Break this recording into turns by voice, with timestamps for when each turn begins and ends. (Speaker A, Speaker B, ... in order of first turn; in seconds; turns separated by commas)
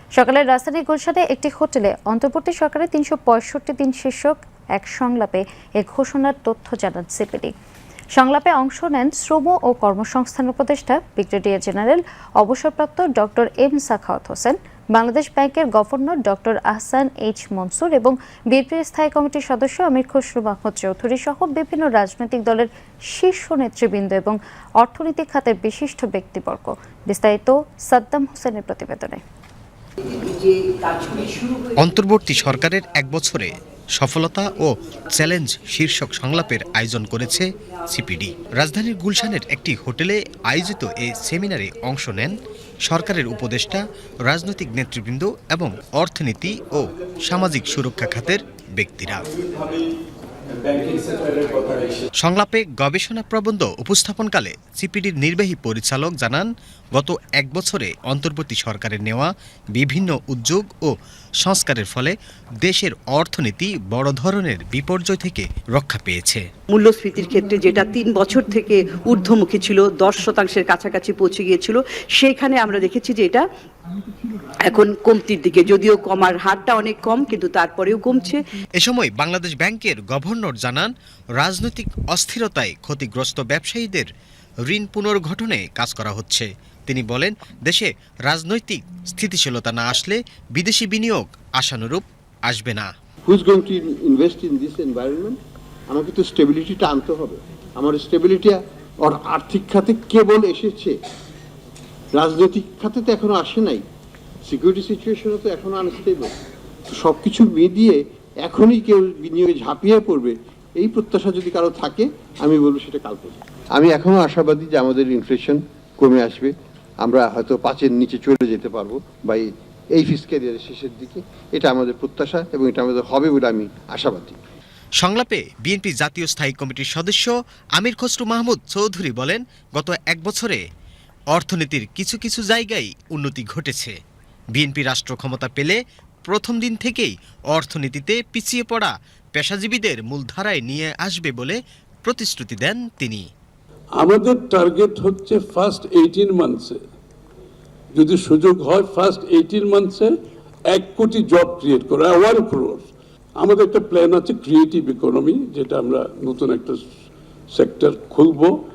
Speaker A: 0.2-7.5, Speaker A: 8.2-29.2, Speaker B: 30.1-31.7, Speaker C: 31.8-49.2, Speaker C: 52.2-66.5, Speaker B: 66.7-73.5, Speaker B: 74.6-78.4, Speaker C: 78.8-84.1, Speaker C: 84.7-92.9, Speaker D: 93.3-95.4, Speaker D: 95.9-101.0, Speaker D: 102.2-103.8, Speaker D: 104.5-106.3, Speaker D: 106.9-124.4, Speaker C: 125.0-130.6, Speaker C: 131.3-133.9, Speaker C: 134.6-143.2, Speaker E: 144.0-146.8, Speaker E: 147.9-150.1, Speaker E: 150.7-156.8, Speaker E: 157.5-158.5